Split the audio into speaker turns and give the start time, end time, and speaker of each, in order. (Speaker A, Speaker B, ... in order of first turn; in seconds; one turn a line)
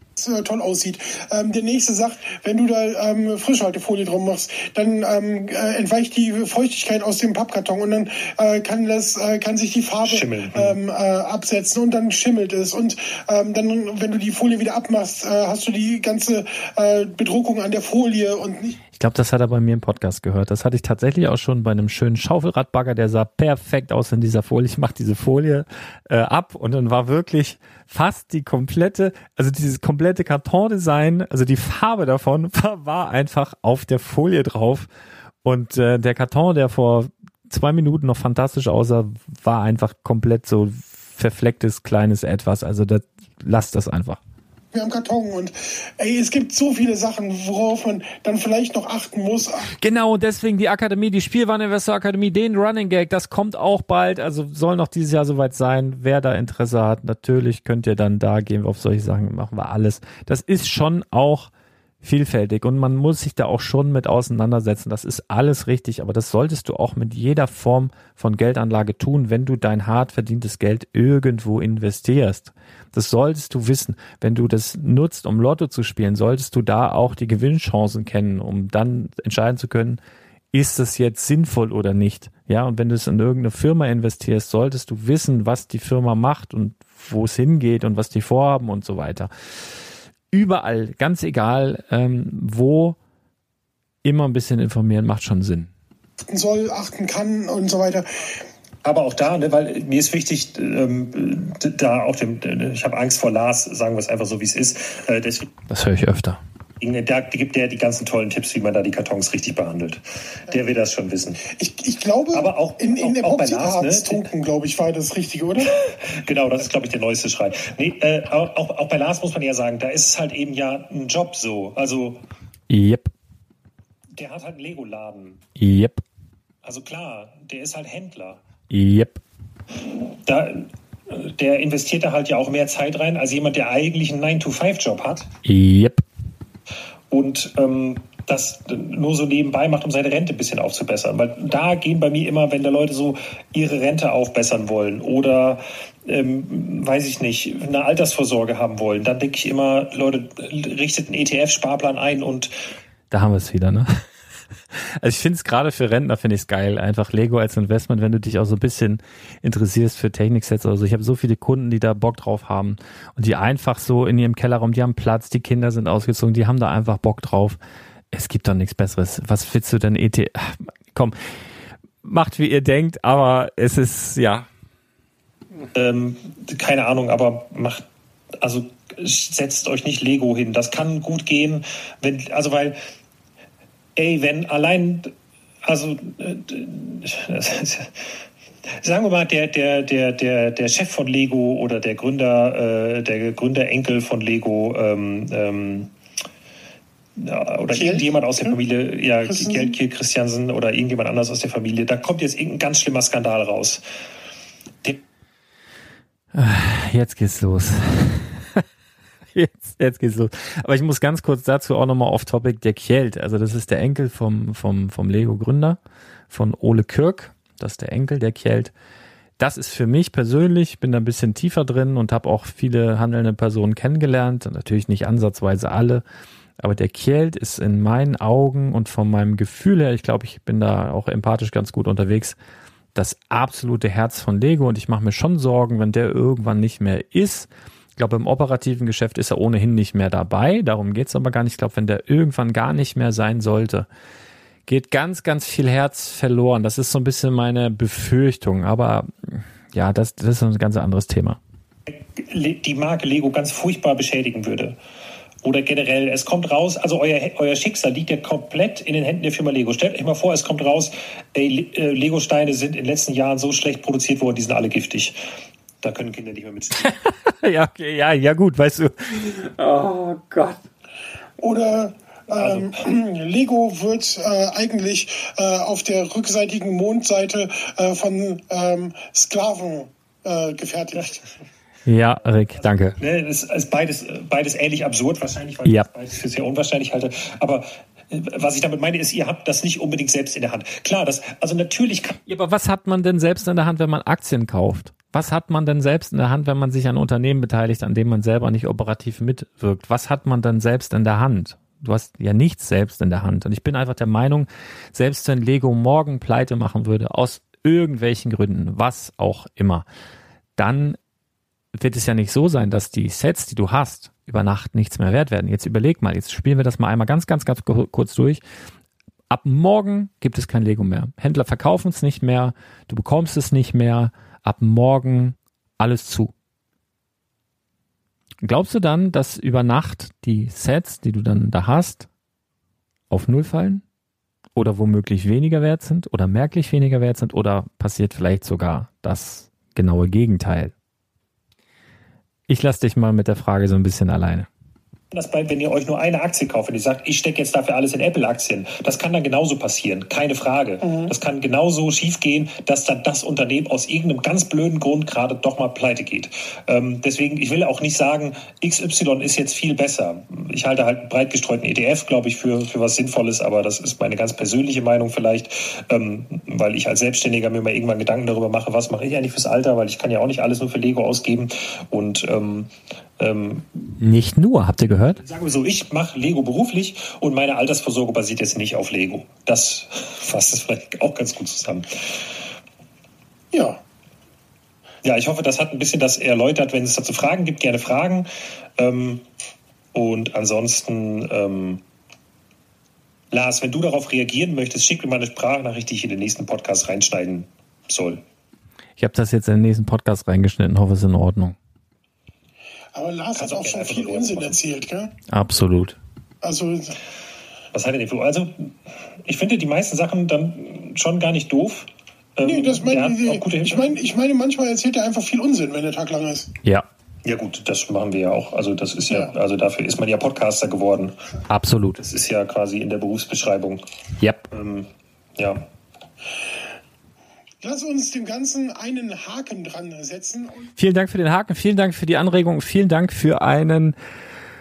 Speaker A: 0.2-18.8
Speaker B: 10.1-10.8
Speaker C: 19.0-34.9
Speaker C: 35.4-44.2
Speaker A: 44.7-49.7
Speaker C: 49.8-61.5
Speaker C: 62.0-80.0
Speaker C: 80.5-89.3
Speaker C: 90.3-93.0
Speaker C: 94.0-95.7
Speaker A: 96.3-98.5
Speaker B: 98.8-105.5
Speaker C: 105.7-106.4
Speaker B: 106.8-111.4
Speaker A: 111.5-115.7
Speaker B: 112.3-114.2
Speaker B: 115.6-122.2
Speaker C: 122.7-123.1
Speaker B: 124.2-125.4
Speaker C: 125.6-126.0
Speaker B: 126.6-128.4
Speaker C: 128.7-129.2
Speaker B: 129.8-135.3
Speaker C: 135.4-136.0
Speaker B: 137.1-152.5
Speaker C: 153.1-154.0
Speaker C: 155.0-167.6
Speaker C: 168.1-171.2
Speaker C: 172.0-174.5
Speaker B: 175.8-177.8
Speaker B: 178.4-182.8
Speaker B: 184.0-185.1
Speaker B: 185.7-188.1
Speaker B: 188.8-195.9
Speaker B: 197.2-203.8
Speaker A: 197.7-198.6
Speaker A: 199.3-199.8
Speaker C: 206.3-208.6
Speaker C: 209.3-215.8
Speaker C: 216.3-218.7
Speaker C: 219.4-226.0
Speaker C: 226.6-232.4
Speaker C: 232.9-243.9
Speaker C: 244.7-251.4
Speaker B: 251.9-254.8
Speaker B: 255.4-265.2
Speaker B: 265.8-266.9
Speaker C: 267.1-270.6
Speaker A: 271.4-281.2
Speaker B: 272.4-272.7
Speaker C: 281.9-283.0
Speaker B: 283.0-292.2
Speaker C: 292.3-309.9
Speaker C: 310.6-311.0
Speaker C: 311.8-318.4
Speaker C: 319.3-326.3
Speaker C: 328.4-332.1
Speaker C: 333.1-333.8
Speaker C: 334.6-340.7
Speaker C: 342.5-344.5
Speaker B: 345.1-373.9
Speaker C: 374.0-375.2
Speaker B: 375.2-382.3
Speaker A: 383.5-383.8
Speaker B: 385.0-389.2
Speaker B: 389.9-391.8
Speaker B: 393.3-398.2
Speaker C: 399.0-401.6
Speaker A: 402.9-405.1
Speaker B: 403.4-404.6
Speaker C: 405.3-406.0
Speaker A: 406.4-407.0
Speaker B: 407.7-408.7
Speaker B: 409.2-413.9
Speaker A: 412.4-416.5
Speaker B: 417.2-421.2
Speaker C: 421.5-422.0
Speaker B: 422.0-423.8
Speaker B: 424.5-425.6
Speaker A: 427.6-430.7
Speaker C: 430.8-434.0